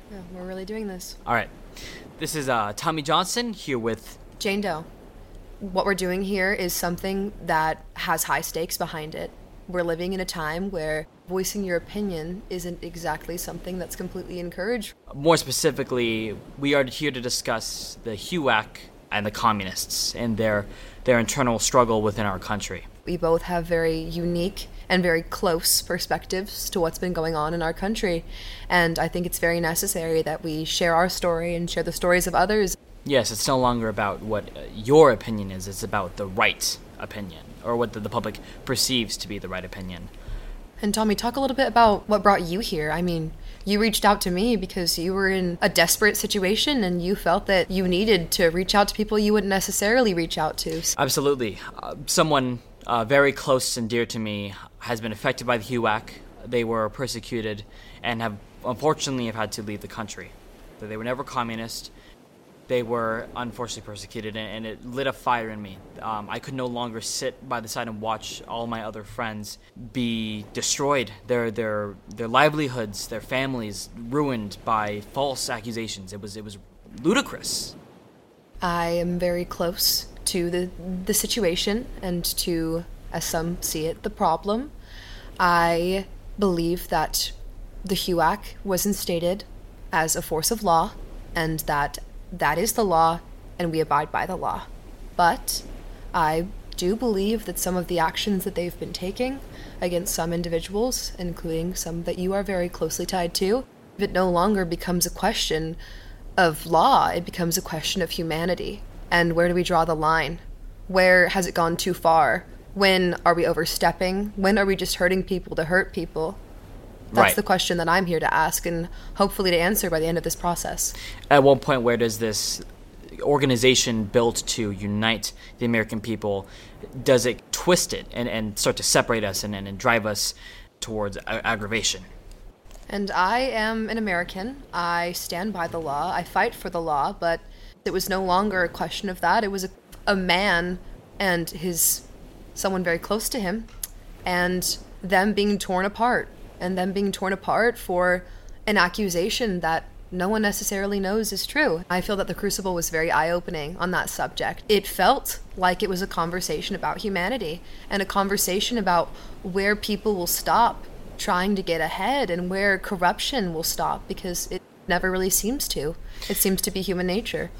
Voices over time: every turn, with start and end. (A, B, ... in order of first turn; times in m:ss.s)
0:00.1-0:01.2 A
0:01.2-0:01.5 B
0:02.2-0:04.2 B
0:04.4-0:04.8 A
0:05.6-0:14.9 A
0:15.1-0:22.8 B
0:23.0-0:32.8 A
0:33.0-0:40.1 B
0:40.8-0:50.9 A
0:51.0-1:01.9 B
1:02.7-1:17.7 B
1:18.6-1:24.7 A
1:25.4-1:45.8 A
1:46.4-1:56.4 A
1:57.1-1:57.4 B
1:57.1-2:00.9 A
2:01.3-2:12.0 B
2:12.9-2:22.0 A
2:22.5-2:23.7 A
2:24.2-2:47.5 A